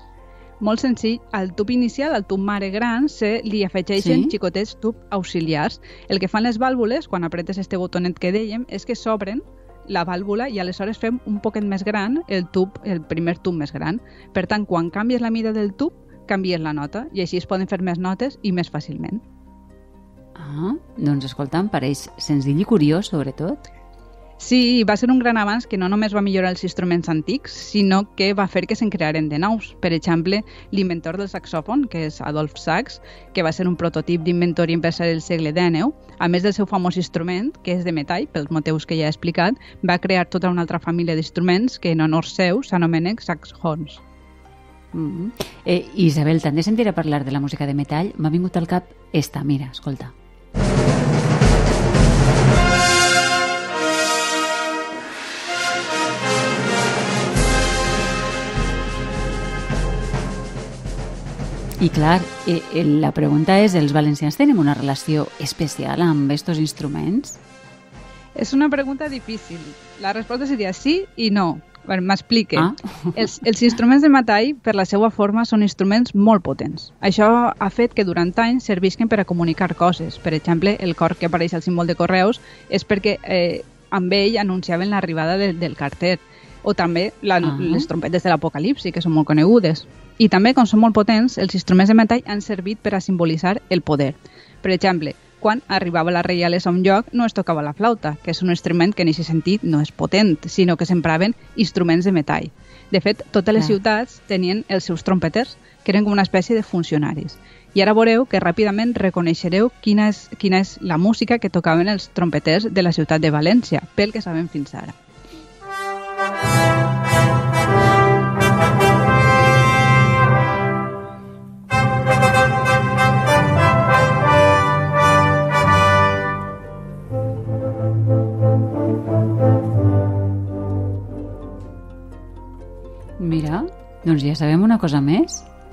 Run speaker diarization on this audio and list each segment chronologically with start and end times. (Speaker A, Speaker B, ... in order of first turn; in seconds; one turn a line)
Speaker A: 0.6-19.2
Speaker B: 4.0-4.3
Speaker B: 20.4-23.6
Speaker A: 24.4-44.0
Speaker B: 44.9-50.1
Speaker B: 61.8-67.4
Speaker A: 68.3-115.0
Speaker B: 72.5-73.3
Speaker B: 87.4-87.9
Speaker B: 133.2-135.5